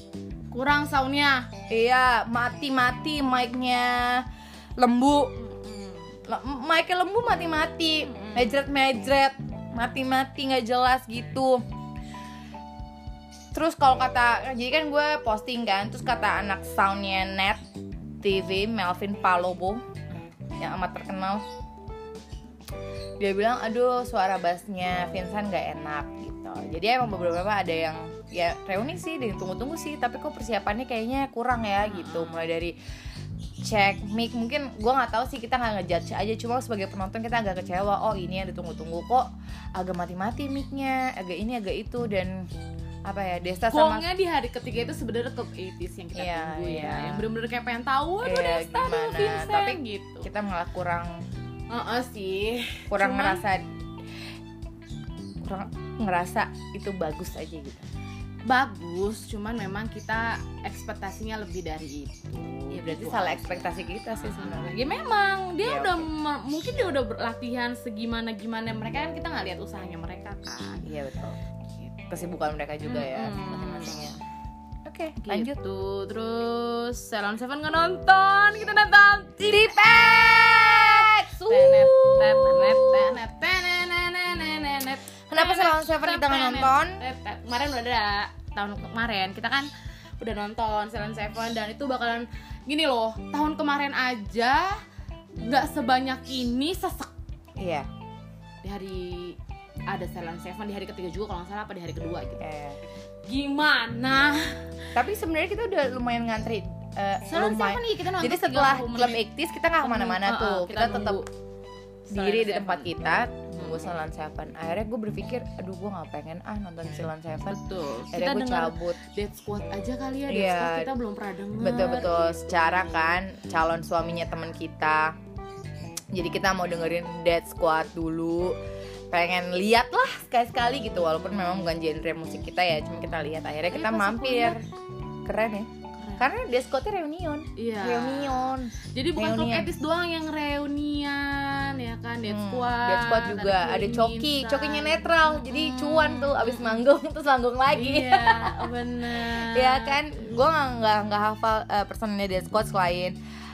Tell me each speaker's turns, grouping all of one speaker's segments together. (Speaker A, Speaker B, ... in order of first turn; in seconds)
Speaker A: 0.5-1.5, 5.4-6.2, 8.0-8.6, 31.8-32.5, 43.7-50.3, 51.7-53.5, 58.5-70.9, 72.8-74.2, 75.2-89.7, 90.2-94.8, 95.4-97.1, 98.6-102.4, 103.3-104.7, 107.2-109.2, 109.8-111.3, 112.1-112.9, 113.5-114.0, 117.5-123.2, 131.0-131.7, 133.7-134.6, 135.9-136.3, 137.6-146.8, 147.7-150.2
Speaker B: 1.7-5.3, 6.3-11.6, 13.5-17.6, 18.2-19.8, 20.6-21.4, 23.2-32.8, 33.6-42.5, 43.1-44.1, 46.1-47.3, 48.2-51.2, 52.9-53.7, 55.4-57.9, 62.7-64.8, 65.6-66.1, 70.9-71.4, 72.0-74.2, 74.8-75.6, 79.5-83.2, 85.3-87.0, 97.6-97.9, 102.4-102.8, 105.0-111.2, 112.1-119.0, 120.3-120.9, 121.6-125.2, 126.1-128.6, 129.1-134.6, 135.2-139.7, 142.3-153.2